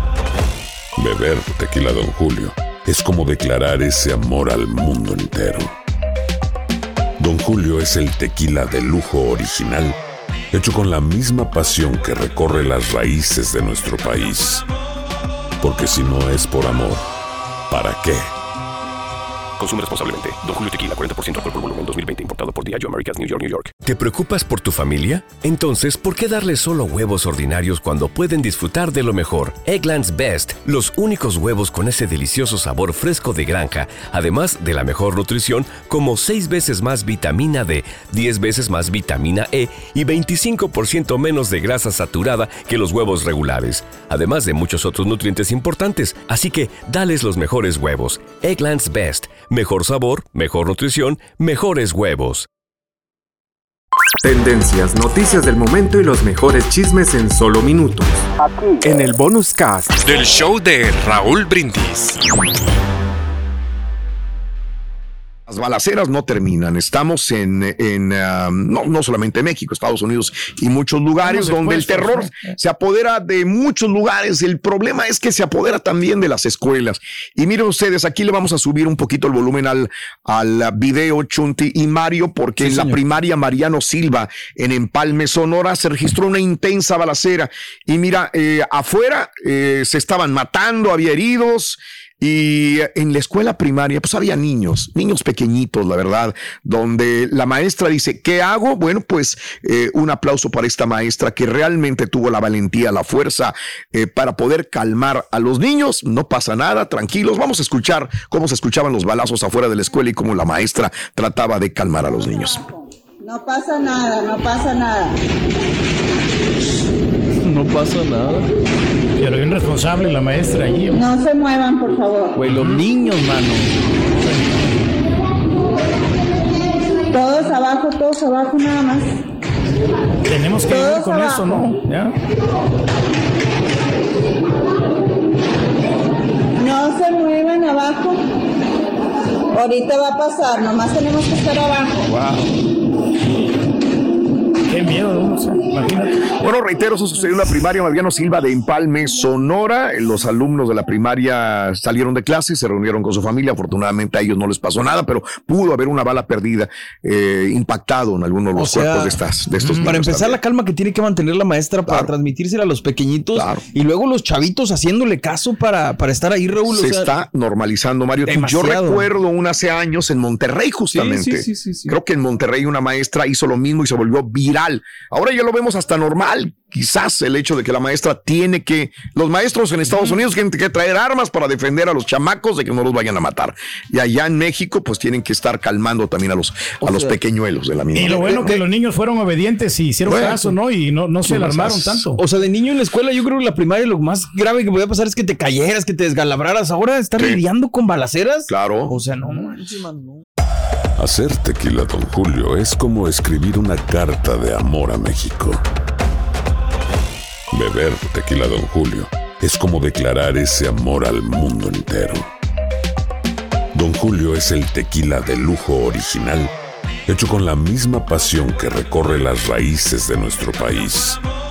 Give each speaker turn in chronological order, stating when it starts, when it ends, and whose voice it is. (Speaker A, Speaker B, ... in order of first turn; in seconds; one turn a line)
Speaker A: 1.0-5.7
Speaker A: 7.2-10.0
Speaker A: 10.5-14.7
Speaker A: 15.6-17.1
Speaker A: 17.7-18.3
Speaker B: 19.6-23.7
Speaker C: 23.8-52.5
Speaker D: 54.2-58.3
Speaker D: 58.8-60.2
Speaker E: 60.1-62.1
Speaker F: 65.5-112.7
Speaker G: 71.2-72.5
Speaker H: 82.6-83.0
Speaker I: 112.6-115.2
Speaker H: 117.4-118.5
Speaker G: 119.2-121.1
Speaker I: 120.9-122.4
Speaker H: 122.4-123.7
Speaker G: 122.5-122.9
Speaker I: 127.1-129.1
Speaker G: 130.3-132.1
Speaker I: 130.6-131.7
Speaker I: 136.6-138.2
Speaker I: 139.5-142.1
Speaker G: 142.2-142.4
Speaker G: 144.7-146.2
Speaker F: 146.3-160.4
Speaker H: 158.6-159.2
Speaker G: 159.6-160.0
Speaker H: 159.8-167.1
Speaker F: 161.9-162.1
Speaker F: 163.3-163.6
Speaker F: 166.7-188.5
Speaker H: 168.2-169.1
Speaker H: 170.9-171.9
Speaker H: 186.8-187.2
Speaker G: 187.9-192.2
Speaker H: 188.0-188.6
Speaker F: 190.1-190.3
Speaker F: 191.3-192.0
Speaker H: 192.2-200.2
Speaker F: 197.2-197.4
Speaker F: 198.5-199.0
Speaker A: 201.0-205.7
Speaker A: 207.5-212.3
Speaker A: 213.7-216.5
Speaker A: 217.1-221.2